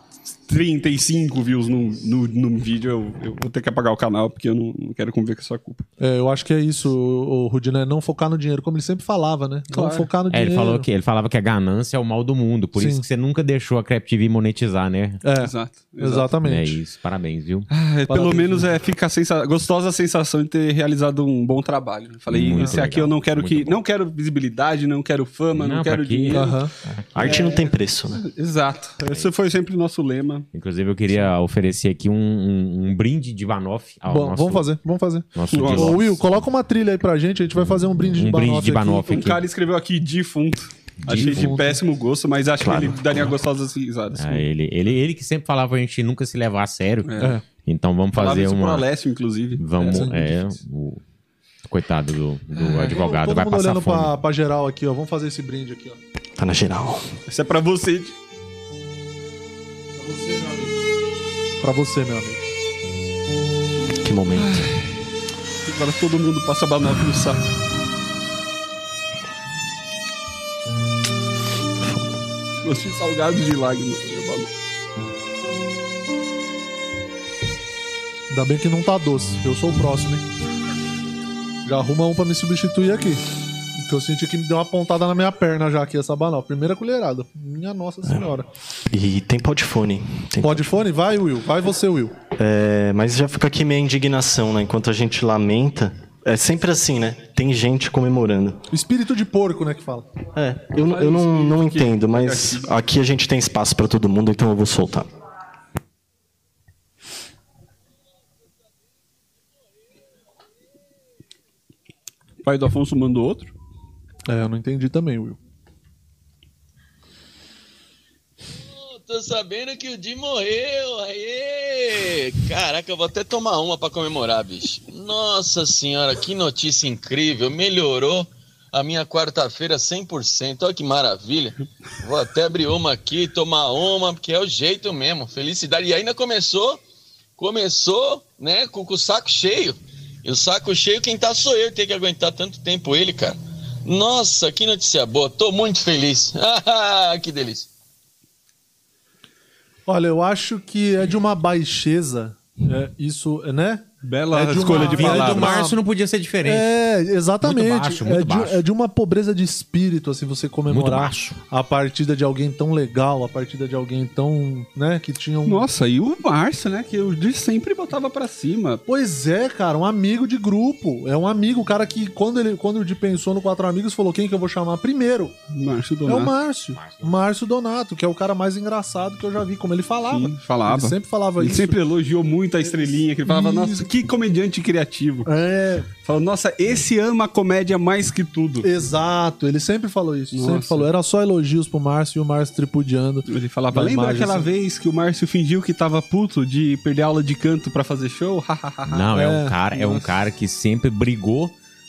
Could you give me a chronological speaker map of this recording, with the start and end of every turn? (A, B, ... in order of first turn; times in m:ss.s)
0:00.5-0:05.9 A
0:06.0-0:10.9 B
0:09.7-0:10.1 A
0:10.3-0:15.2 C
0:12.8-0:13.0 B
0:15.2-0:16.8 B
0:15.4-0:16.3 A
0:16.4-0:17.7 C
0:17.7-0:26.6 A
0:18.1-0:18.7 B
0:22.3-0:23.8 C
0:22.6-0:22.8 B
0:25.6-0:27.5 C
0:26.3-0:26.7 B
0:27.2-0:28.2 D
0:27.2-0:30.5 A
0:30.5-0:34.7 C
0:34.1-0:39.1 B
0:35.3-0:36.4 C
0:35.5-0:36.0 A
0:37.6-0:39.4 C
0:39.1-0:44.4 A
0:41.0-0:41.6 C
0:41.1-0:41.8 B
0:42.6-0:43.3 D
0:44.2-0:48.9 C
0:47.0-0:47.4 A
0:48.1-0:50.1 A
0:49.6-0:51.0 C
0:49.9-0:50.4 B
0:51.6-0:54.2 C
0:52.6-0:53.0 A
0:52.8-0:56.0 B
0:56.4-0:57.2 D
0:57.3-0:58.2 A
1:00.0-1:00.7 B
1:01.6-1:02.5 B
1:04.0-1:04.7 D
1:04.4-1:04.8 A
1:05.6-1:07.4 A
1:11.8-1:12.1 D
1:12.6-1:14.5 A
1:18.3-1:20.2 B
1:21.7-1:23.2 B
1:23.8-1:28.5 B
1:28.9-1:30.7 D
1:30.4-1:32.2 B
1:32.4-1:38.6 D
1:38.7-1:40.1 B
1:40.3-1:45.1 D
1:40.8-1:42.7 A
1:52.4-1:53.5 A
1:54.3-1:55.4 B
1:58.5-2:16.8 E
2:17.4-2:27.7 E
2:29.9-2:35.8 B
2:34.0-2:35.5 A
2:34.7-2:36.7 C
2:36.4-2:45.7 B
2:37.4-2:38.6 C
2:40.7-2:41.4 C
2:45.5-2:48.8 A
2:48.9-2:55.4 B
2:55.5-2:56.3 A
2:56.1-3:01.8 B
2:56.7-2:57.2 C
3:00.1-3:05.3 A
3:02.8-3:03.9 B
3:05.2-3:05.9 B
3:06.0-3:08.7 A
3:08.6-3:14.5 B
3:10.3-3:10.9 A
3:13.3-3:19.1 A
3:18.9-3:21.6 C
3:19.1-3:19.6 B
3:19.7-3:20.1 A